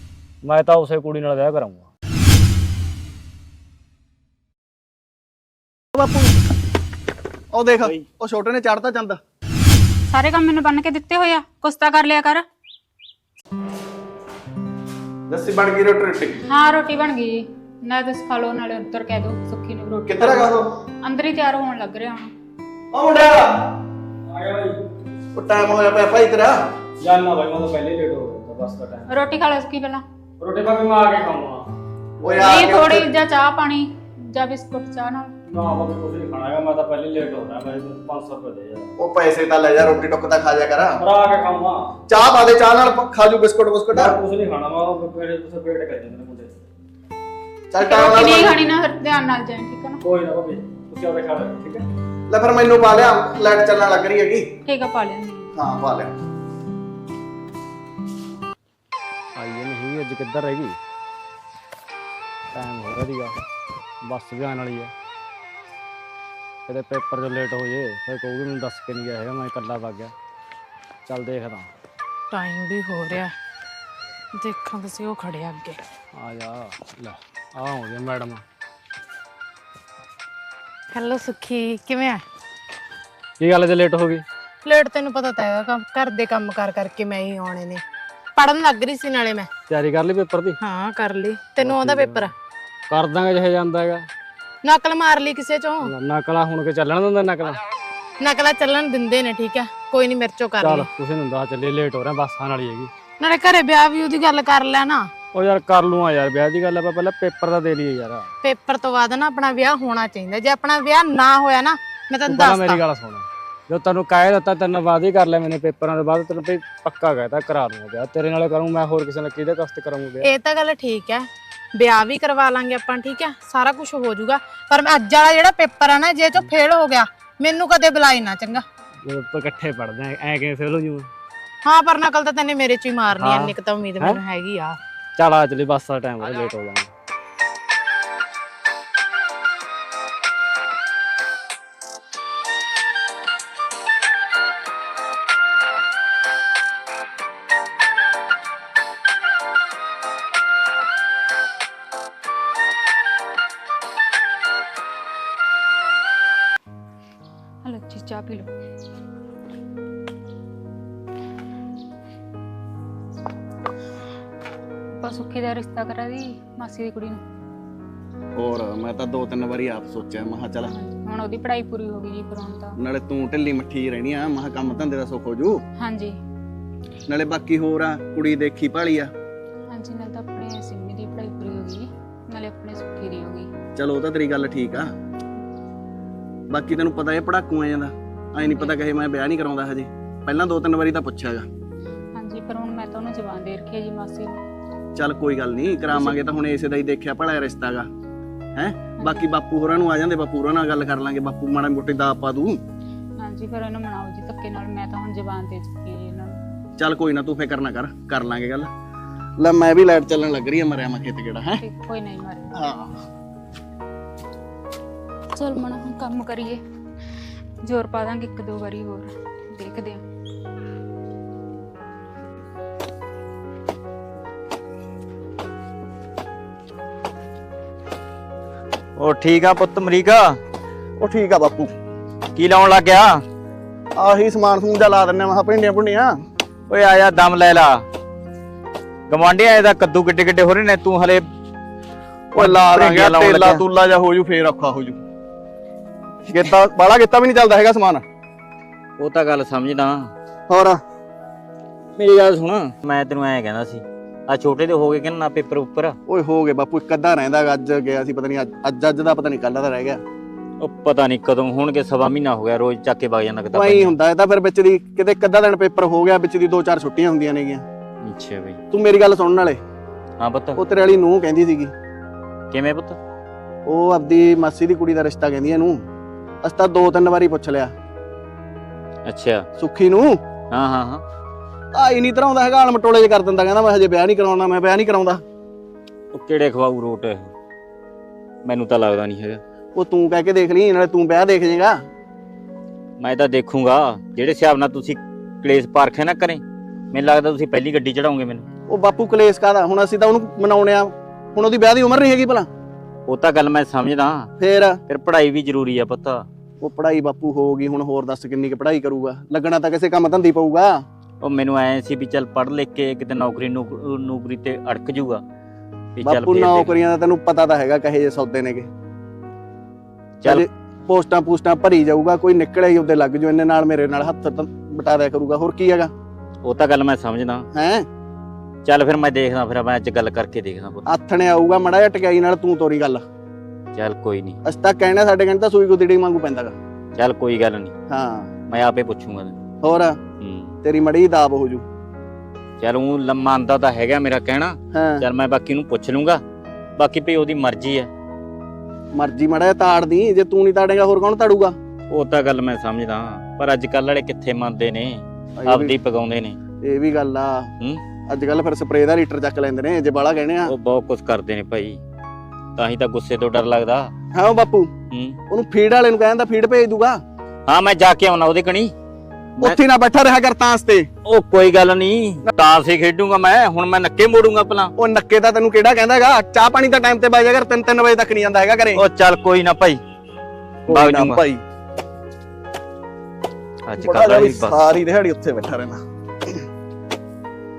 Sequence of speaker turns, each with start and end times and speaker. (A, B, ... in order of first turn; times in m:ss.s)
0:00.4-0:01.9 A
0:05.9-0:06.4 B
0:07.5-0:09.2 B
0:10.1-0:12.4 C
0:15.3-0:16.4 B
0:16.5-0:22.3 C
0:20.1-0:20.7 B
0:22.9-0:23.7 B
0:24.3-0:24.9 A
0:25.4-0:26.6 B
0:27.0-0:29.2 A
0:29.1-0:30.0 C
0:30.4-0:31.7 A
0:32.2-0:33.1 B
0:32.2-0:32.5 A
0:32.4-0:35.3 C
0:35.5-0:38.9 A
0:39.0-0:41.0 B
0:41.0-0:42.0 A
0:42.1-0:44.2 B
0:43.9-0:46.6 A
0:47.7-0:48.6 B
0:47.8-0:50.0 C
0:50.0-0:51.9 A
0:52.3-0:54.5 B
0:54.7-0:55.5 C
0:55.6-0:56.1 B
0:59.4-1:00.8 A
1:02.5-1:03.4 A
1:04.0-1:04.9 A
1:06.7-1:10.1 A
1:11.1-1:11.7 A
1:12.3-1:13.3 D
1:14.4-1:15.8 D
1:16.2-1:18.4 A
1:20.9-1:22.2 D
1:23.4-1:24.2 A
1:24.6-1:27.8 D
1:28.4-1:29.5 D
1:29.7-1:30.6 A
1:30.6-1:32.3 D
1:31.6-1:32.3 A
1:32.9-1:34.1 A
1:34.6-1:35.9 D
1:35.8-1:37.6 A
1:38.2-1:40.9 D
1:40.6-1:42.9 A
1:43.2-1:45.1 D
1:45.3-1:48.3 A
1:48.4-1:52.8 D
1:52.3-2:00.3 A
2:00.2-2:08.6 D
2:09.0-2:11.1 A
2:11.6-2:14.8 D
2:13.2-2:14.2 A
2:15.2-2:16.9 A
2:37.6-2:38.5 C
2:45.0-2:47.2 C
2:48.4-2:50.7 B
2:50.7-2:52.8 C
2:52.8-2:55.6 B
2:55.8-2:56.2 C
2:57.1-2:59.1 B
2:59.7-3:03.5 C
3:03.8-3:04.9 B
3:06.5-3:11.5 B
3:12.2-3:14.4 C
3:15.0-3:17.9 B
3:18.6-3:22.6 B
3:23.2-3:26.4 C
3:26.8-3:28.7 B
3:29.4-3:31.6 B
3:31.6-3:32.6 C
3:32.6-3:33.0 B
3:35.4-3:36.6 C
3:37.6-3:40.0 C
3:49.0-3:50.4 E
3:51.0-3:51.7 B
3:52.4-3:53.2 E
3:54.0-3:56.2 B
3:56.7-3:57.8 E
3:59.1-4:01.3 E
4:02.3-4:05.0 B
4:02.4-4:03.6 E
4:06.3-4:08.0 B
4:09.0-4:10.1 E
4:10.5-4:10.8 B
4:12.0-4:16.0 E
4:16.1-4:20.0 B
4:20.6-4:24.0 E
4:23.5-4:27.6 B
4:28.0-4:28.6 E
4:28.7-4:29.6 B
4:30.2-4:30.6 E
4:30.6-4:31.7 B
4:32.5-4:33.0 E
4:33.7-4:35.8 B
4:36.4-4:37.7 B
4:39.1-4:39.5 E
4:39.6-4:40.2 B
4:40.5-4:41.0 E
4:41.7-4:45.2 B
4:46.1-4:47.3 E
4:48.4-4:49.4 E
4:49.8-4:51.8 B
4:53.0-4:56.4 E
4:56.9-4:58.5 E
4:58.7-5:02.5 B
5:03.1-5:04.3 E
5:04.4-5:04.8 B
5:04.9-5:06.3 E
5:06.6-5:10.8 B
5:11.2-5:15.2 E
5:16.0-5:16.8 E
5:16.0-5:18.7 B
5:20.2-5:25.9 B
5:26.4-5:27.5 E
5:27.5-5:27.9 B
5:28.6-5:30.9 E
5:30.9-5:33.0 B
5:33.8-5:34.4 E
5:34.4-5:36.6 B
5:37.0-5:37.7 E
5:37.9-5:38.3 B
5:38.5-5:39.4 E
5:39.6-5:40.0 B
5:40.2-5:40.5 E
5:40.6-5:41.6 B
5:42.6-5:46.2 E
5:44.7-5:45.0 B
5:46.8-5:47.9 E
5:49.0-5:51.6 B
5:51.9-5:56.4 E
5:55.4-5:55.8 B
5:56.6-5:57.5 B
5:58.1-6:00.5 B
6:00.5-6:01.8 E
6:02.6-6:03.9 E
6:04.1-6:04.7 B
6:04.9-6:05.2 E
6:05.3-6:07.0 B
6:07.5-6:08.7 E
6:09.4-6:10.9 B
6:11.0-6:14.7 E
6:14.8-6:18.8 B
6:18.7-6:19.8 E
6:20.7-6:21.4 B
6:20.7-6:21.2 E
6:23.7-6:24.6 E
6:23.8-6:26.4 B